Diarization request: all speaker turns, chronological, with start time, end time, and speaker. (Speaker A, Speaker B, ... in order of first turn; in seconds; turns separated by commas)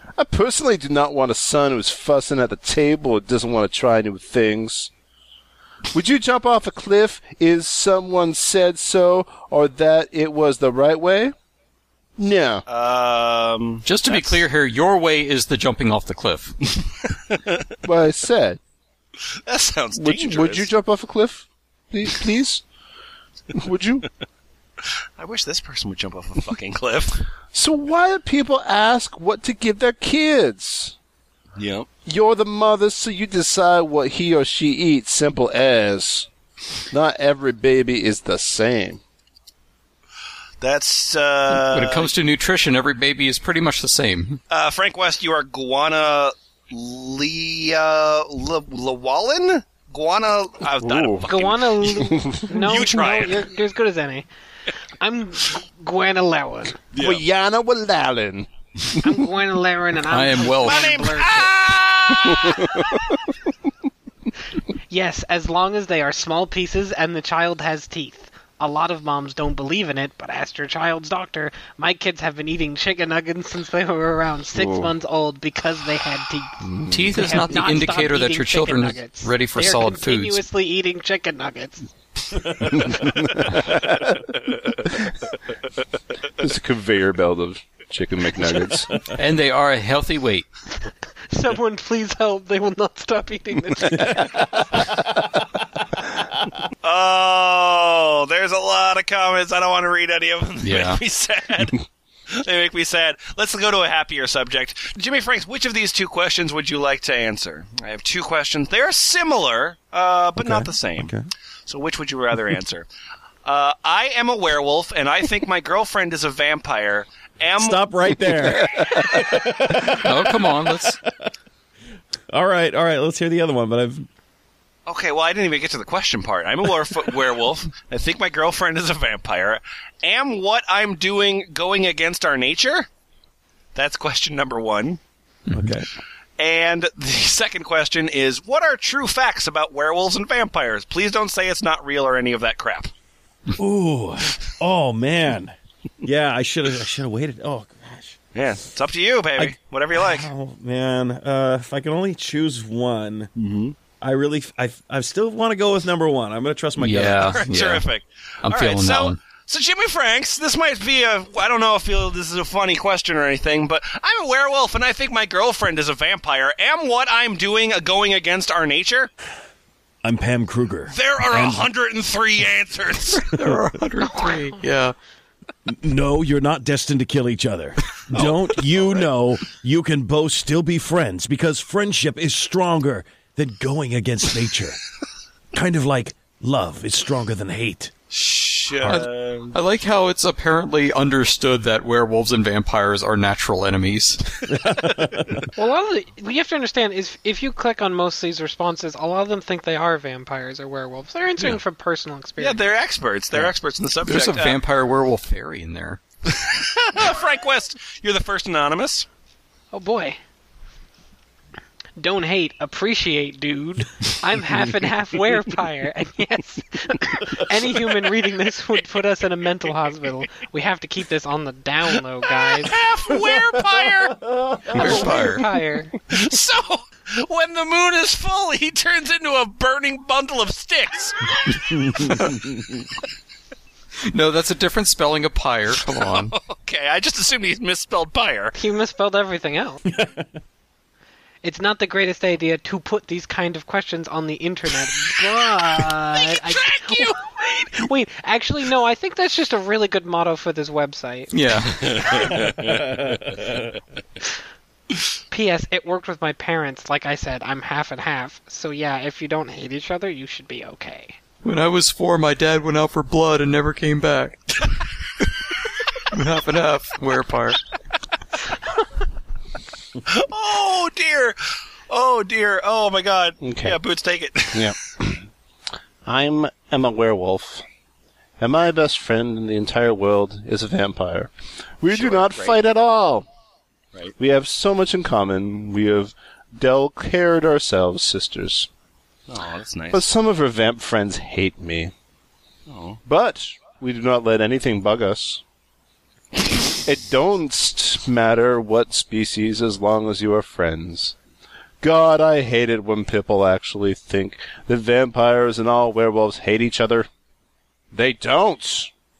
Speaker A: 0.2-4.9, Speaker A: 5.9-11.3, Speaker A: 12.2-12.7, Speaker B: 12.7-14.4, Speaker C: 13.9-16.7, Speaker B: 17.3-17.7, Speaker A: 17.8-18.6, Speaker B: 19.4-20.7, Speaker A: 20.0-22.6, Speaker A: 23.5-24.1, Speaker B: 25.2-27.2, Speaker A: 27.5-30.9, Speaker B: 31.6-31.9, Speaker A: 32.0-36.3, Speaker A: 36.9-39.0, Speaker B: 40.6-42.1, Speaker C: 41.5-44.4, Speaker B: 44.5-53.5, Speaker A: 50.8-51.3, Speaker D: 51.3-54.3, Speaker D: 55.0-56.8, Speaker B: 56.9-57.2, Speaker A: 57.0-58.5, Speaker D: 59.0-61.6, Speaker C: 60.1-60.9, Speaker B: 60.6-62.9, Speaker A: 62.4-62.9, Speaker D: 64.9-81.9, Speaker A: 74.6-74.9, Speaker A: 76.7-77.0, Speaker C: 76.9-80.4, Speaker A: 82.7-84.3, Speaker A: 86.4-89.0, Speaker C: 89.1-90.5, Speaker D: 91.3-94.8, Speaker B: 96.8-111.1, Speaker C: 100.6-101.0, Speaker E: 110.4-111.3, Speaker B: 111.7-112.9, Speaker B: 113.5-117.8, Speaker E: 117.6-121.3, Speaker C: 119.8-121.0, Speaker E: 122.3-124.1, Speaker B: 124.9-132.9, Speaker B: 133.8-135.0, Speaker C: 135.5-135.8, Speaker E: 135.5-135.9, Speaker B: 136.4-142.9, Speaker E: 143.6-148.2, Speaker B: 148.3-150.3, Speaker E: 149.4-153.3, Speaker B: 153.4-153.8, Speaker E: 154.0-157.4, Speaker C: 156.8-157.9, Speaker B: 157.2-169.1, Speaker C: 158.4-159.2, Speaker E: 170.0-171.7, Speaker B: 170.9-173.2, Speaker C: 173.2-174.9, Speaker E: 175.7-184.8, Speaker B: 178.1-179.1, Speaker E: 185.5-187.9, Speaker B: 188.1-189.6, Speaker C: 188.8-194.4, Speaker E: 194.5-195.3, Speaker D: 195.6-202.7, Speaker B: 202.4-204.6, Speaker C: 204.0-206.0, Speaker B: 206.3-209.1, Speaker D: 209.7-210.2, Speaker D: 212.0-222.8, Speaker B: 222.5-224.2, Speaker E: 223.3-224.8, Speaker C: 224.7-225.5, Speaker D: 224.7-226.0, Speaker B: 224.8-225.1, Speaker B: 226.1-231.8, Speaker E: 231.8-232.1, Speaker C: 234.1-236.3, Speaker B: 236.0-238.6, Speaker D: 238.6-239.8, Speaker E: 239.9-240.2, Speaker D: 241.4-251.3, Speaker B: 246.1-247.7, Speaker C: 251.3-252.3, Speaker B: 251.7-253.6, Speaker E: 252.7-253.3, Speaker D: 255.3-261.2, Speaker C: 261.4-264.6, Speaker C: 266.0-267.6, Speaker B: 270.1-274.7, Speaker A: 273.4-273.8, Speaker A: 274.6-275.2, Speaker A: 276.1-277.6, Speaker A: 278.4-283.3, Speaker B: 281.9-282.6, Speaker A: 284.2-288.7, Speaker B: 289.3-290.0, Speaker A: 289.9-291.9, Speaker B: 292.7-293.0, Speaker A: 293.1-295.4, Speaker A: 296.7-301.1, Speaker A: 301.8-307.1, Speaker A: 307.9-308.9